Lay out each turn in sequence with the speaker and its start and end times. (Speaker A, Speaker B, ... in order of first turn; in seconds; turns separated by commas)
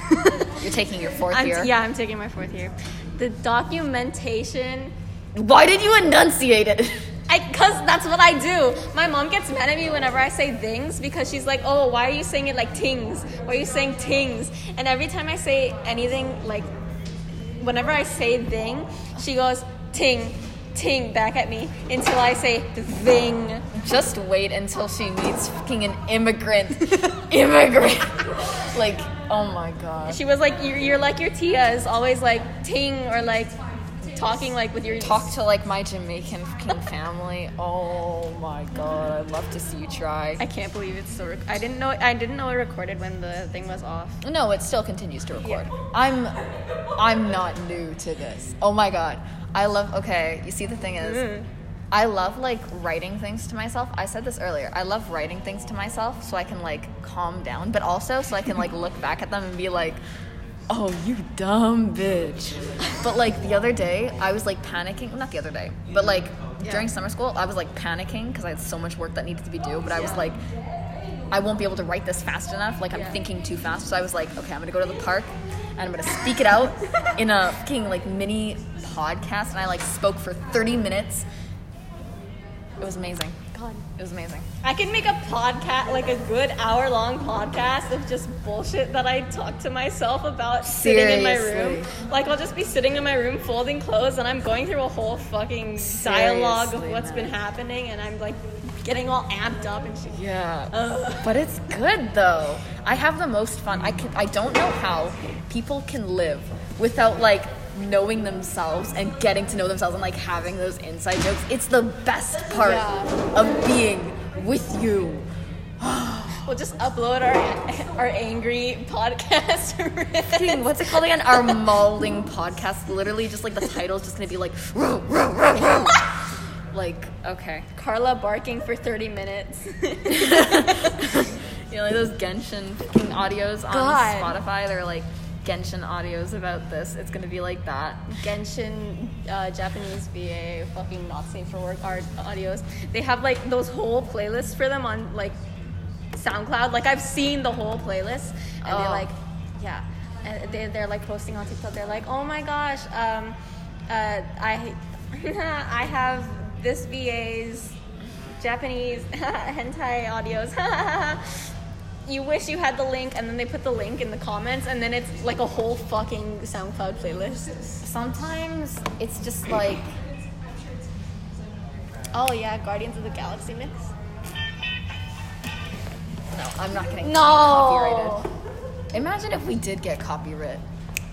Speaker A: 0.2-0.6, Speaker B: 0.6-1.7, Speaker A: 1.3-4.9, Speaker B: 5.3-7.0, Speaker A: 7.3-16.7, Speaker A: 17.6-23.7, Speaker B: 23.7-30.2, Speaker A: 30.1-33.5, Speaker A: 34.1-35.3, Speaker B: 34.9-40.4, Speaker A: 40.4-44.2, Speaker B: 44.2-46.4, Speaker B: 47.0-51.3, Speaker A: 51.0-51.5, Speaker B: 51.9-60.0, Speaker B: 60.7-70.4, Speaker A: 66.6-66.9, Speaker B: 71.3-81.3, Speaker B: 82.8-84.5, Speaker A: 84.6-101.3, Speaker B: 90.6-91.9, Speaker B: 95.8-97.4, Speaker B: 100.1-115.3, Speaker A: 112.6-113.1, Speaker B: 115.8-116.5, Speaker A: 116.3-120.7, Speaker B: 120.3-126.1, Speaker B: 126.7-127.7, Speaker A: 127.8-131.0, Speaker B: 130.1-138.1, Speaker A: 133.7-134.3, Speaker A: 138.1-145.4, Speaker A: 146.1-153.4, Speaker B: 148.6-149.1, Speaker A: 153.9-157.8, Speaker A: 158.4-161.2, Speaker A: 162.1-167.5, Speaker B: 167.8-169.9, Speaker A: 172.1-173.9, Speaker B: 176.3-178.2, Speaker A: 177.0-178.3, Speaker B: 178.9-180.6